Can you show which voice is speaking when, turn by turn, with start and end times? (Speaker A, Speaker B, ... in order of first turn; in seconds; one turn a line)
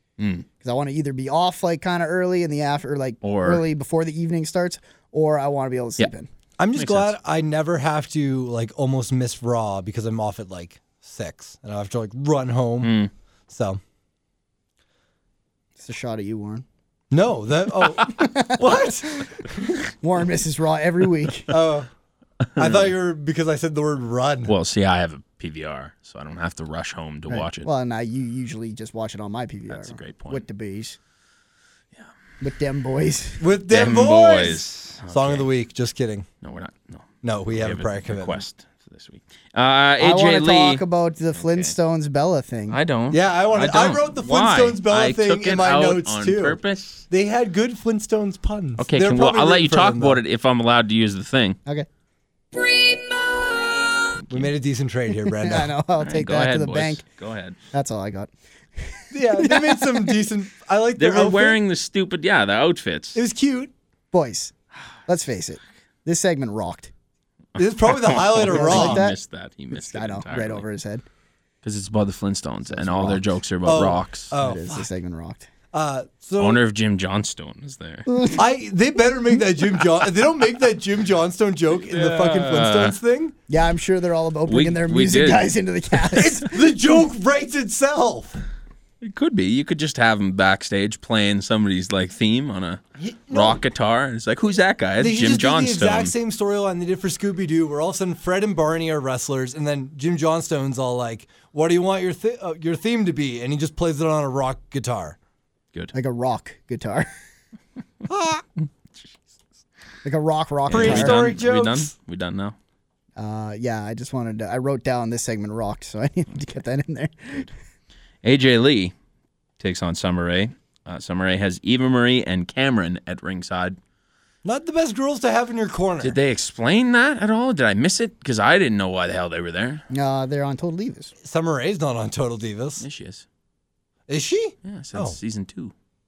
Speaker A: 0.2-0.5
Speaker B: 0.6-6.3
Speaker A: 3.2-3.6
Speaker C: 6.6-12.9
Speaker A: 6.8-7.1
Speaker A: 12.8-13.1
Speaker C: 13.5-13.8
Speaker B: 15.8-16.6
Speaker C: 17.1-19.4
Speaker B: 18.0-21.5
Speaker C: 21.5-21.9
Speaker A: 22.5-22.9
Speaker C: 22.6-24.5
Speaker A: 24.5-27.7
Speaker B: 27.3-31.0
Speaker A: 29.7-30.4
Speaker B: 32.4-33.4
Speaker C: 33.4-36.3
Speaker A: 33.7-35.5
Speaker A: 36.4-40.8
Speaker C: 37.2-38.4
Speaker B: 40.0-42.8
Speaker A: 41.4-41.7
Speaker A: 42.7-47.0
Speaker C: 43.1-46.6
Speaker C: 47.1-50.2
Speaker A: 48.8-51.6
Speaker C: 54.3-55.7
Speaker B: 55.2-57.0
Speaker A: 56.0-57.5
Speaker B: 57.7-60.2
Speaker C: 59.1-61.6
Speaker A: 61.0-63.2
Speaker C: 63.1-63.7
Speaker B: 64.1-64.5
Speaker B: 65.0-66.9
Speaker C: 67.6-69.0
Speaker A: 67.6-70.6
Speaker B: 68.5-69.2
Speaker B: 69.7-71.0
Speaker A: 71.6-74.3
Speaker B: 72.7-73.2
Speaker C: 73.6-74.9
Speaker B: 74.3-75.5
Speaker C: 75.7-76.6
Speaker A: 76.4-78.1
Speaker B: 78.1-78.4
Speaker C: 78.3-83.3
Speaker A: 81.8-83.0
Speaker B: 83.5-86.5
Speaker A: 84.5-85.5
Speaker C: 86.2-88.4
Speaker A: 89.0-96.1
Speaker C: 93.0-93.6
Speaker C: 95.0-105.2
Speaker B: 105.9-107.1
Speaker C: 108.1-108.4
Speaker B: 110.0-111.2
Speaker A: 110.7-112.5
Speaker C: 110.7-111.9
Speaker B: 113.2-117.5
Speaker A: 118.2-118.9
Speaker A: 119.6-123.8
Speaker C: 124.4-126.2
Speaker A: 126.0-129.8
Speaker B: 129.9-131.1
Speaker C: 131.2-132.8
Speaker A: 132.8-133.2
Speaker C: 134.1-135.2
Speaker A: 134.6-135.7